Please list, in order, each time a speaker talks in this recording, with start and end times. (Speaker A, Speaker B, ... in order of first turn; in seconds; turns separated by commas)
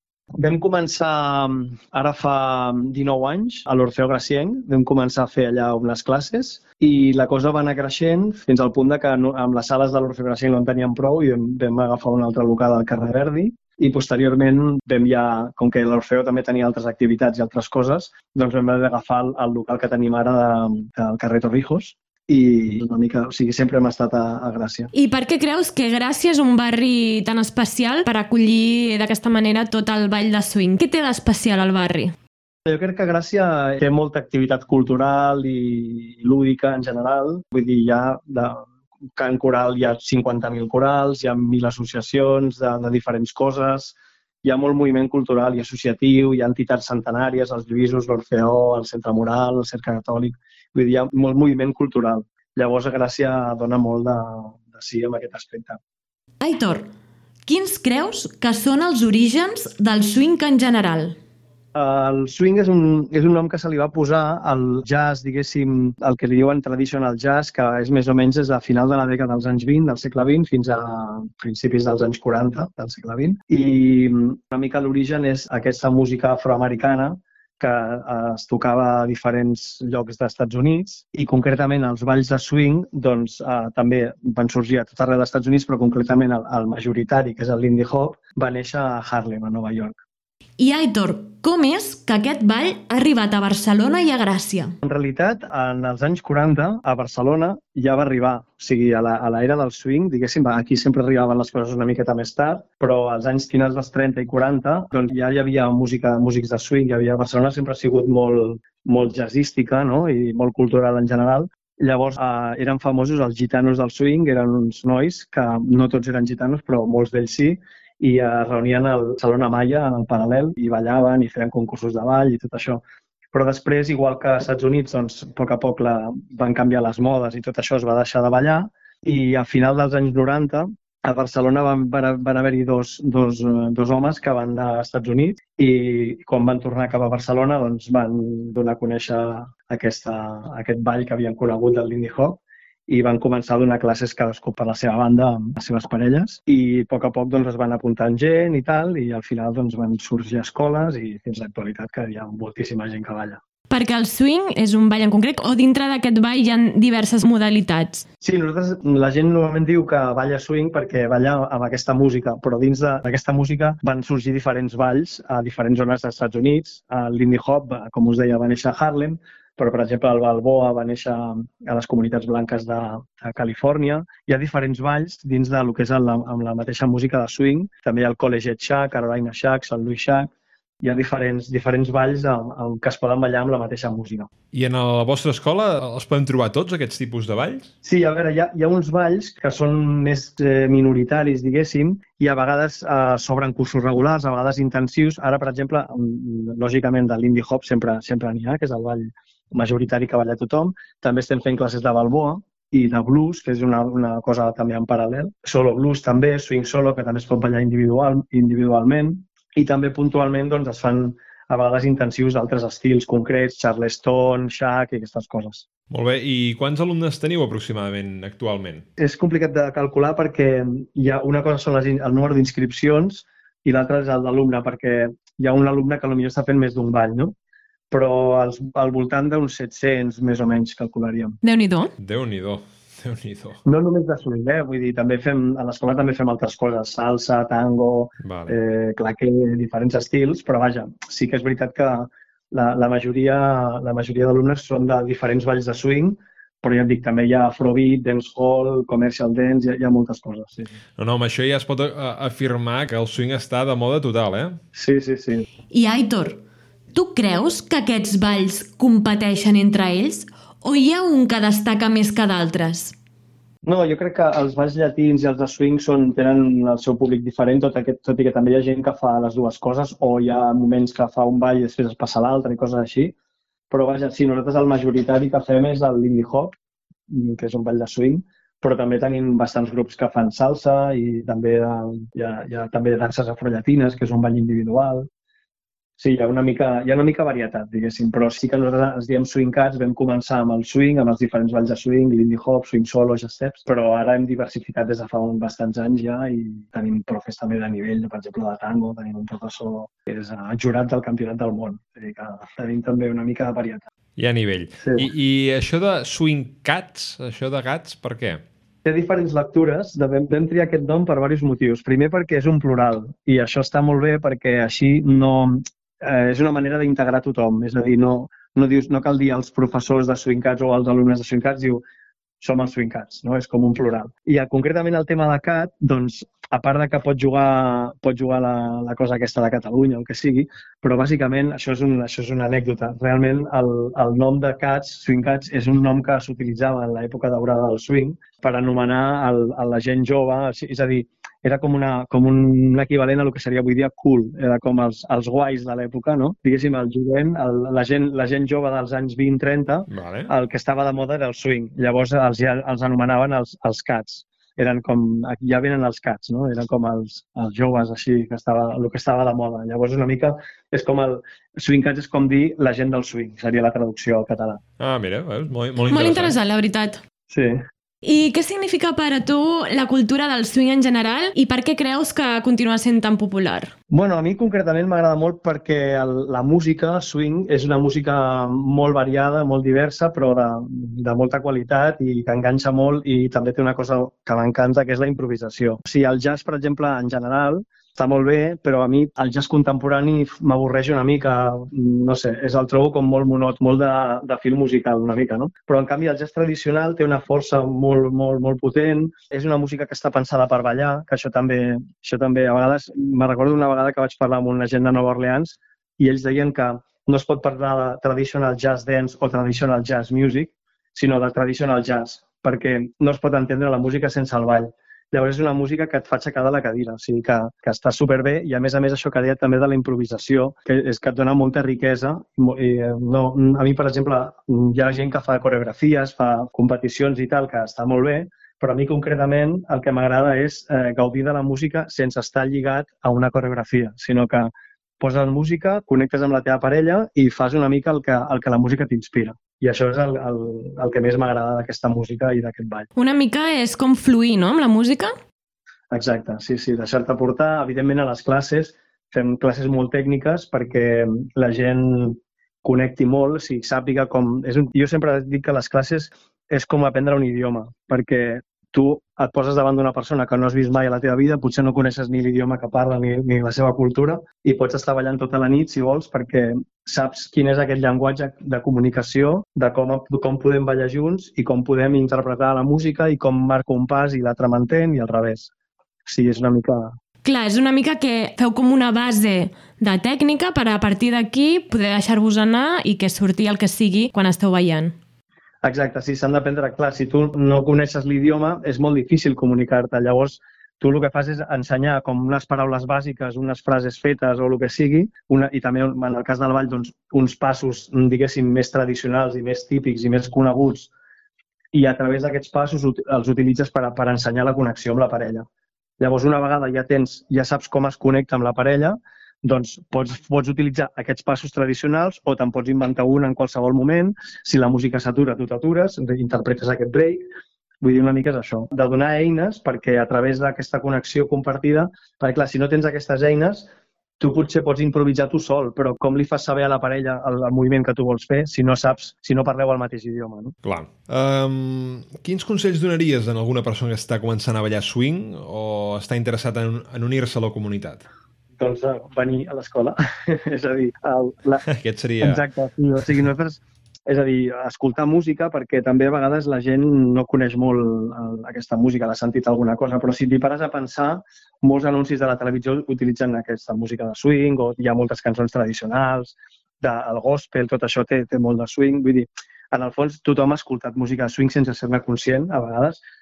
Speaker A: 0.3-24.9, Speaker B: 24.9-32.1, Speaker A: 32.6-55.8, Speaker B: 56.4-56.8, Speaker B: 57.5-61.1, Speaker A: 61.7-90.0, Speaker B: 90.6-94.7, Speaker A: 94.8-122.8, Speaker A: 123.3-153.4, Speaker B: 153.7-158.1, Speaker A: 158.2-184.3, Speaker C: 184.5-187.7, Speaker A: 187.8-215.7, Speaker C: 215.9-218.9, Speaker A: 219.0-227.3, Speaker A: 227.9-231.4, Speaker B: 231.4-231.9, Speaker C: 232.0-233.6, Speaker A: 233.6-250.8, Speaker C: 238.2-238.6, Speaker C: 251.0-254.6, Speaker A: 254.7-255.5, Speaker B: 255.7-256.4, Speaker B: 256.9-262.9, Speaker A: 263.6-273.1, Speaker A: 273.7-276.5, Speaker A: 277.1-285.1, Speaker A: 286.0-303.9, Speaker C: 304.2-308.4, Speaker A: 304.8-305.1, Speaker A: 308.9-321.8, Speaker A: 322.4-364.6, Speaker C: 349.9-350.3, Speaker C: 364.8-366.4, Speaker B: 365.9-367.0, Speaker A: 367.3-367.6, Speaker B: 368.0-373.7, Speaker A: 373.9-442.9, Speaker B: 442.9-445.1, Speaker A: 445.9-475.5, Speaker A: 476.1-476.9, Speaker B: 477.2-484.9, Speaker A: 485.6-500.9, Speaker A: 501.7-505.4, Speaker A: 506.0-517.3, Speaker A: 517.8-523.7, Speaker A: 524.2-530.5, Speaker C: 530.6-538.0, Speaker A: 538.6-541.6, Speaker C: 541.7-542.4, Speaker A: 542.2-563.0